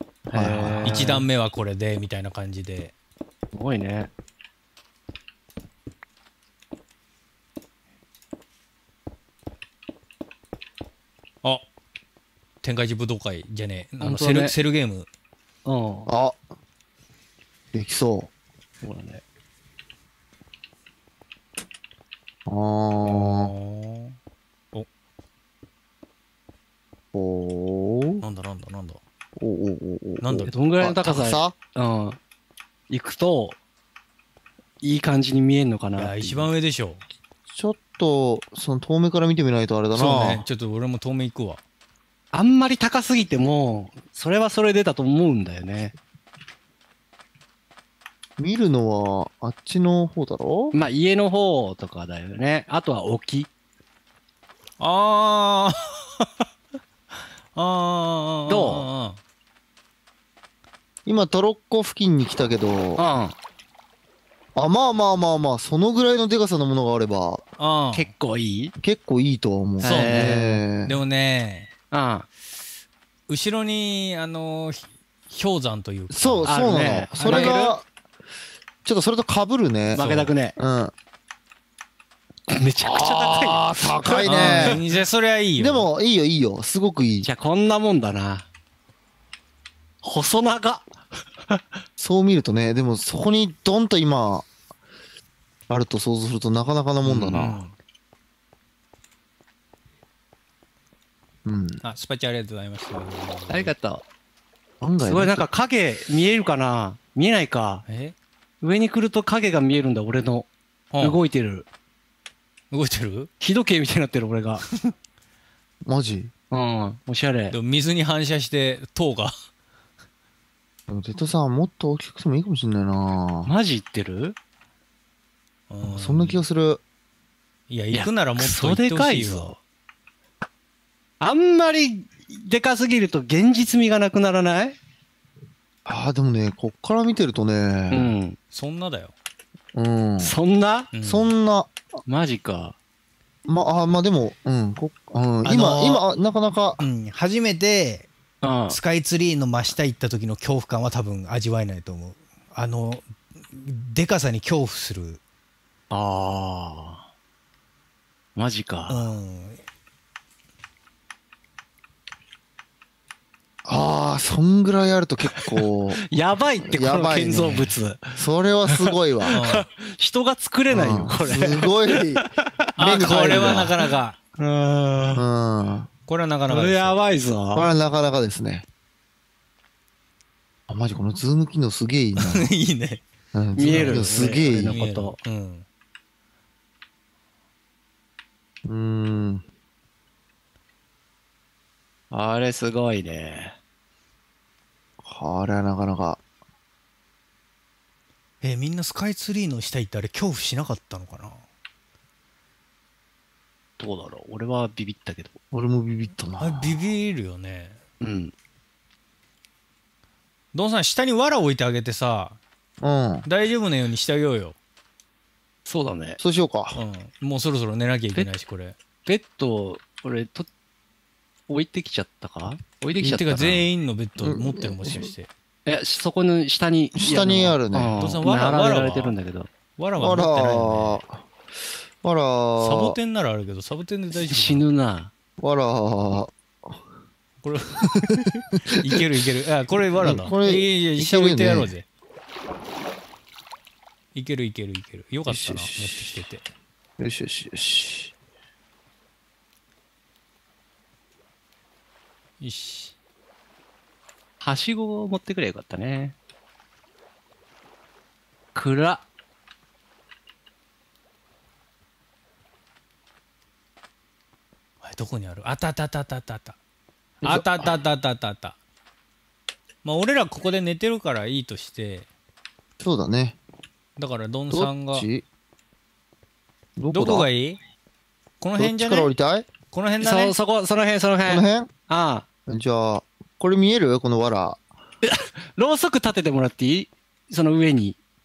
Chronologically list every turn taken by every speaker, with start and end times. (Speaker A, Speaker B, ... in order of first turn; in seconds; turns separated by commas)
Speaker A: 0.3-1.2, Speaker B: 0.3-1.3, Speaker C: 0.8-2.9, Speaker B: 3.5-4.1, Speaker C: 12.6-15.1, Speaker B: 14.0-14.6, Speaker B: 15.7-16.1, Speaker A: 16.1-16.4, Speaker A: 17.7-18.3, Speaker B: 18.8-19.2, Speaker A: 22.5-23.5, Speaker C: 23.0-24.2, Speaker A: 27.1-28.2, Speaker C: 28.2-29.0, Speaker A: 29.4-31.6, Speaker C: 30.2-30.5, Speaker B: 30.5-32.2, Speaker B: 32.9-33.6, Speaker B: 34.8-36.5, Speaker C: 36.0-37.0, Speaker A: 37.5-40.4, Speaker C: 39.9-41.6, Speaker B: 42.3-46.0, Speaker A: 48.4-50.8, Speaker B: 50.7-53.5, Speaker C: 54.8-56.5, Speaker C: 57.5-59.2, Speaker B: 58.5-58.9, Speaker A: 61.1-63.0, Speaker B: 63.0-63.4, Speaker A: 64.5-67.4, Speaker C: 67.6-68.1, Speaker B: 68.0-68.7, Speaker A: 68.8-71.0, Speaker B: 69.8-70.6, Speaker C: 69.8-71.7, Speaker B: 71.9-72.3, Speaker C: 73.3-77.7, Speaker A: 76.1-77.8, Speaker B: 76.5-77.8, Speaker A: 78.8-80.9, Speaker B: 79.9-80.6, Speaker C: 80.0-80.3, Speaker B: 82.5-84.8, Speaker A: 82.8-84.8, Speaker C: 84.1-85.9, Speaker A: 85.6-87.3, Speaker B: 87.2-88.5, Speaker B: 90.0-90.9, Speaker A: 92.0-94.5, Speaker A: 95.7-97.6, Speaker B: 97.0-97.4, Speaker C: 97.3-97.8, Speaker A: 101.5-101.8, Speaker C: 101.8-103.7, Speaker B: 103.5-104.0, Speaker A: 104.8-105.4, Speaker B: 105.0-107.8, Speaker C: 107.9-108.2, Speaker B: 108.6-110.5, Speaker C: 110.9-111.2, Speaker B: 111.0-111.7, Speaker C: 112.7-113.3, Speaker B: 113.4-114.7, Speaker A: 115.8-116.3, Speaker B: 116.5-117.5, Speaker C: 117.5-119.3, Speaker A: 120.9-123.5, Speaker B: 123.5-124.4, Speaker C: 125.7-126.4, Speaker A: 125.9-126.8, Speaker C: 127.7-129.6, Speaker B: 127.9-129.6, Speaker B: 131.2-134.8, Speaker A: 135.9-138.2, Speaker B: 137.9-138.4, Speaker C: 138.5-139.1, Speaker A: 139.7-140.4, Speaker B: 140.2-140.9, Speaker C: 140.9-141.3, Speaker A: 141.0-141.7, Speaker B: 142.1-142.8, Speaker A: 143.5-146.8, Speaker C: 145.4-146.0, Speaker C: 146.8-148.1, Speaker B: 148.4-148.8, Speaker C: 148.7-155.2, Speaker B: 155.9-157.1, Speaker B: 158.4-159.1, Speaker C: 158.9-159.6, Speaker A: 163.7-166.0, Speaker B: 165.4-172.5, Speaker A: 166.6-169.4, Speaker C: 169.3-169.7, Speaker A: 170.7-172.2, Speaker C: 172.8-174.2, Speaker A: 172.8-173.7, Speaker B: 173.2-173.7, Speaker B: 174.4-175.2, Speaker A: 175.1-175.9, Speaker C: 176.1-177.0, Speaker B: 176.5-177.7, Speaker A: 177.6-178.7, Speaker A: 180.7-182.5, Speaker C: 182.2-183.0, Speaker A: 183.3-184.8, Speaker B: 183.6-185.2, Speaker C: 183.6-185.7, Speaker A: 188.7-189.4, Speaker B: 192.1-193.6, Speaker A: 195.0-196.2, Speaker C: 198.4-201.4, Speaker B: 203.8-205.4, Speaker A: 205.5-206.8, Speaker C: 206.4-207.8, Speaker B: 208.0-208.3, Speaker C: 210.5-212.4, Speaker A: 212.8-213.3, Speaker C: 213.3-214.6, Speaker B: 215.7-216.2, Speaker A: 216.2-216.8, Speaker C: 216.8-218.8, Speaker B: 219.1-220.5, Speaker B: 221.5-223.7, Speaker C: 223.0-225.3, Speaker A: 224.2-225.1, Speaker B: 225.7-229.5, Speaker A: 227.0-228.0, Speaker C: 228.0-229.2, Speaker C: 229.8-231.0, Speaker A: 230.0-231.2, Speaker A: 232.0-233.0, Speaker C: 232.6-234.6, Speaker B: 234.1-235.1, Speaker A: 235.4-236.3, Speaker C: 237.4-241.9, Speaker A: 237.9-239.0, Speaker A: 240.0-241.7, Speaker C: 244.1-246.4, Speaker A: 245.3-246.2, Speaker A: 247.0-248.1, Speaker C: 252.4-252.9, Speaker B: 254.4-256.2, Speaker B: 258.6-259.0, Speaker C: 264.8-266.6, Speaker C: 267.2-268.6, Speaker A: 267.2-267.7, Speaker C: 269.8-272.1, Speaker A: 272.8-273.4, Speaker C: 274.0-275.1, Speaker A: 274.5-275.2, Speaker A: 276.8-277.3, Speaker C: 276.9-277.6, Speaker C: 278.4-279.1, Speaker A: 278.6-279.5, Speaker C: 279.7-280.4, Speaker B: 280.0-282.2, Speaker A: 281.2-281.7, Speaker A: 282.5-284.6, Speaker B: 285.0-288.0